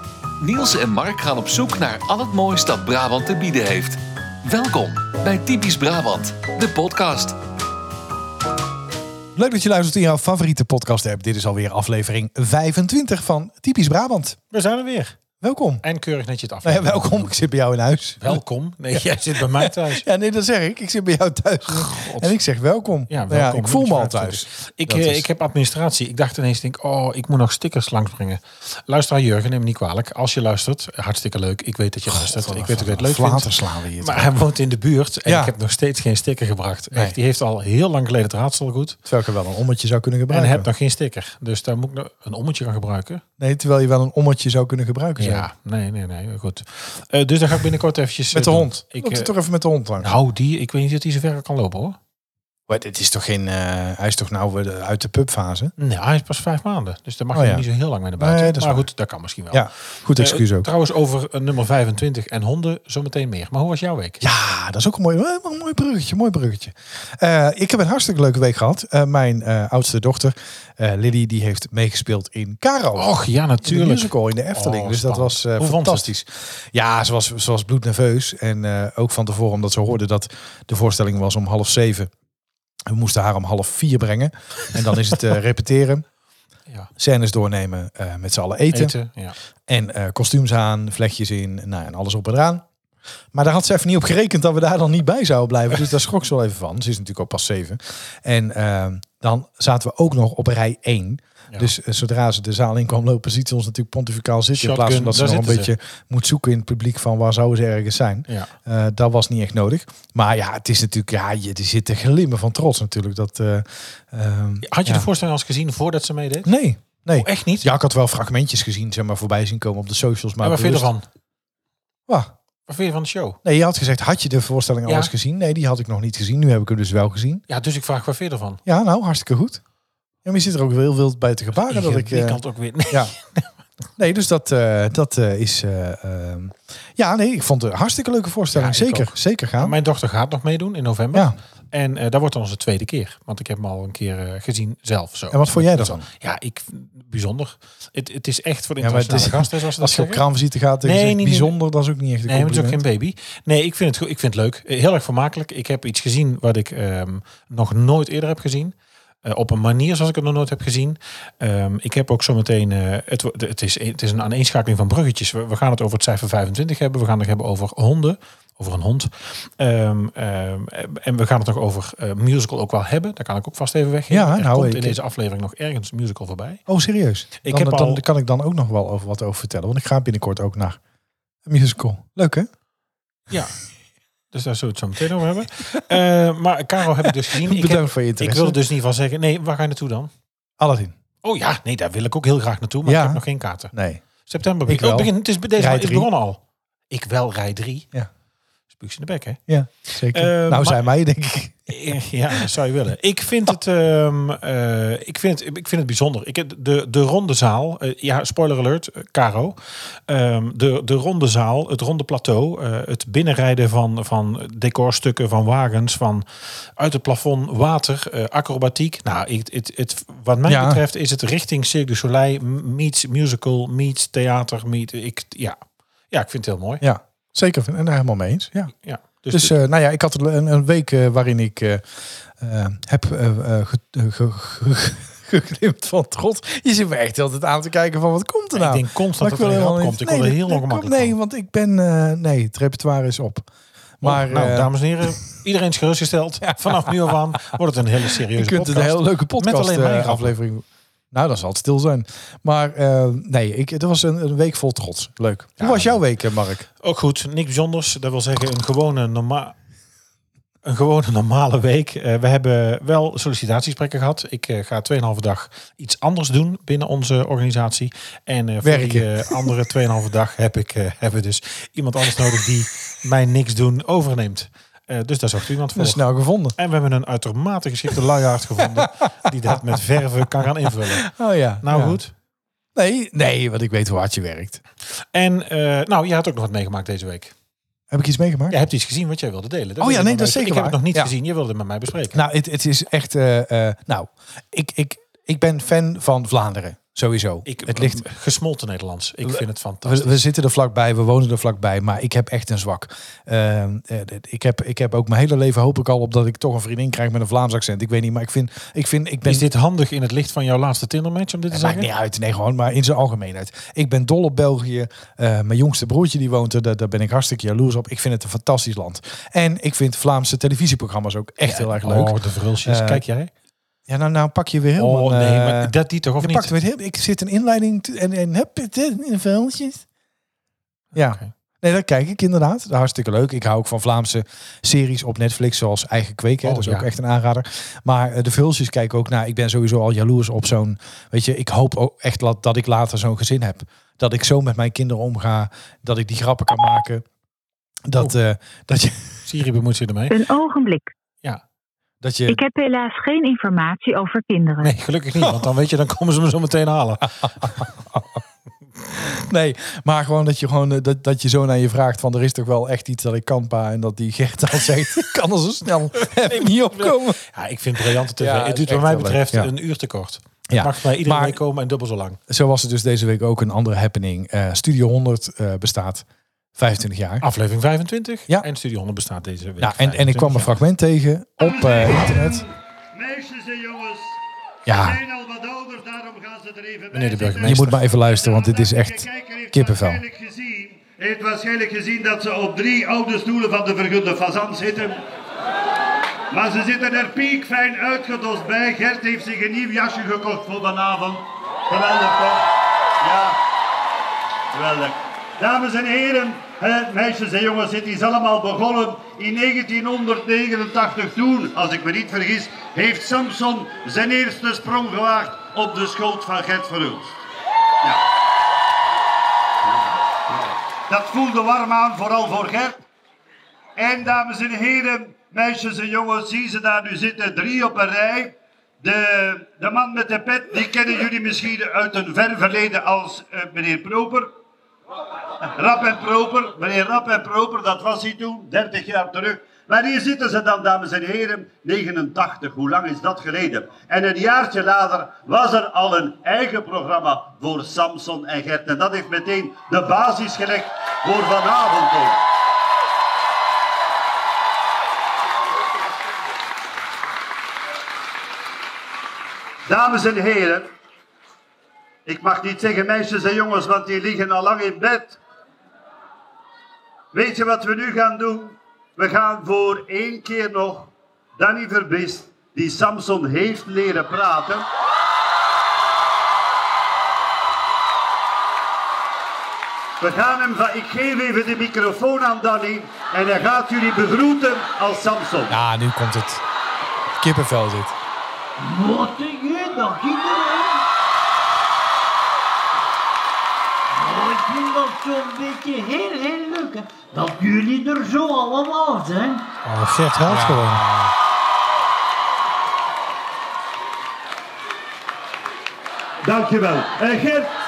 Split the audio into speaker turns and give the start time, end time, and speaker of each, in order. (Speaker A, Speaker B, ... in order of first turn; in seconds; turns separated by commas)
Speaker A: 0.4-7.4, Speaker B: 9.3-14.4, Speaker C: 14.5-15.2, Speaker B: 15.4-15.8, Speaker C: 15.8-17.4, Speaker B: 16.6-18.4, Speaker C: 18.2-20.1, Speaker B: 18.9-25.3, Speaker C: 21.7-22.4, Speaker C: 23.1-39.0, Speaker B: 32.1-34.3, Speaker B: 35.3-35.5, Speaker B: 36.9-37.2, Speaker B: 39.1-40.7, Speaker C: 40.3-43.2, Speaker B: 43.4-45.5, Speaker C: 45.2-49.3, Speaker B: 48.3-50.1, Speaker C: 50.0-52.0, Speaker B: 52.7-55.7, Speaker C: 55.8-64.2, Speaker B: 57.3-57.6, Speaker B: 58.2-58.9, Speaker B: 59.5-60.7, Speaker B: 64.2-73.1, Speaker C: 73.0-76.1, Speaker B: 73.6-82.1, Speaker B: 82.9-86.0, Speaker B: 87.0-89.0, Speaker C: 88.7-89.3, Speaker B: 89.7-92.7, Speaker B: 93.3-115.1, Speaker C: 104.6-105.7, Speaker C: 114.6-116.5, Speaker B: 116.5-120.9, Speaker C: 117.1-117.7, Speaker C: 120.4-121.0, Speaker C: 122.7-123.4, Speaker B: 123.4-127.4, Speaker C: 124.9-125.1, Speaker C: 127.5-128.6, Speaker B: 128.7-129.6, Speaker B: 130.2-132.4, Speaker C: 131.6-133.5, Speaker B: 134.0-139.8, Speaker C: 138.5-150.2, Speaker B: 145.3-146.1, Speaker B: 148.8-152.8, Speaker C: 150.8-151.6, Speaker C: 152.3-176.6, Speaker B: 174.1-175.0, Speaker B: 176.7-180.8, Speaker C: 177.4-178.0, Speaker B: 181.4-182.5, Speaker C: 183.3-183.6, Speaker C: 184.3-190.1, Speaker B: 187.2-188.6, Speaker B: 190.6-190.9, Speaker C: 191.2-197.9, Speaker B: 192.8-194.0, Speaker B: 194.7-196.1, Speaker C: 198.7-200.9, Speaker B: 199.5-201.8, Speaker C: 201.7-216.2, Speaker C: 216.8-225.6, Speaker B: 220.5-220.8, Speaker C: 226.1-226.8, Speaker B: 226.8-228.7, Speaker C: 228.8-229.6, Speaker B: 229.3-231.9, Speaker B: 232.4-243.5, Speaker C: 238.5-241.1, Speaker B: 244.0-245.2, Speaker C: 244.0-250.3, Speaker B: 246.4-247.1, Speaker B: 248.3-256.7, Speaker C: 255.6-256.0, Speaker C: 256.8-259.6, Speaker C: 260.6-276.0, Speaker B: 268.6-269.5, Speaker B: 275.8-276.6, Speaker C: 276.6-281.1, Speaker B: 278.6-279.8, Speaker B: 280.9-282.0, Speaker C: 281.6-282.1, Speaker B: 282.8-284.6, Speaker C: 284.9-287.3, Speaker B: 287.9-288.6, Speaker C: 288.5-292.2, Speaker B: 289.8-291.1, Speaker B: 292.1-298.0, Speaker C: 297.5-300.2, Speaker B: 299.3-309.5, Speaker C: 309.2-311.9, Speaker B: 311.5-323.0, Speaker C: 321.4-323.3, Speaker B: 323.9-329.9, Speaker C: 324.8-326.5, Speaker B: 330.9-347.1, Speaker C: 331.0-331.3, Speaker C: 336.4-336.9, Speaker B: 347.9-349.2, Speaker C: 349.3-350.1, Speaker D: 350.1-350.9, Speaker B: 352.0-352.4, Speaker D: 352.3-354.7, Speaker C: 354.6-357.5, Speaker B: 357.2-358.2, Speaker B: 359.1-367.2, Speaker C: 366.0-372.2, Speaker B: 368.2-369.5, Speaker B: 370.5-371.4, Speaker B: 372.3-376.1, Speaker B: 376.6-377.2, Speaker C: 377.2-380.6, Speaker B: 379.6-382.4, Speaker E: 381.4-395.0, Speaker B: 384.7-385.0, Speaker C: 386.9-387.8, Speaker B: 387.4-390.0, Speaker E: 396.3-402.5, Speaker E: 403.0-403.4, Speaker E: 404.5-417.2, Speaker E: 420.3-422.8, Speaker E: 423.8-434.3, Speaker E: 435.4-452.2, Speaker E: 459.7-460.7, Speaker E: 462.1-465.2, Speaker E: 467.1-474.7, Speaker E: 480.0-485.6, Speaker B: 485.5-486.4, Speaker B: 487.1-487.9, Speaker F: 488.6-490.8, Speaker F: 493.9-499.5, Speaker C: 499.6-500.9, Speaker B: 500.3-501.1, Speaker E: 506.2-507.5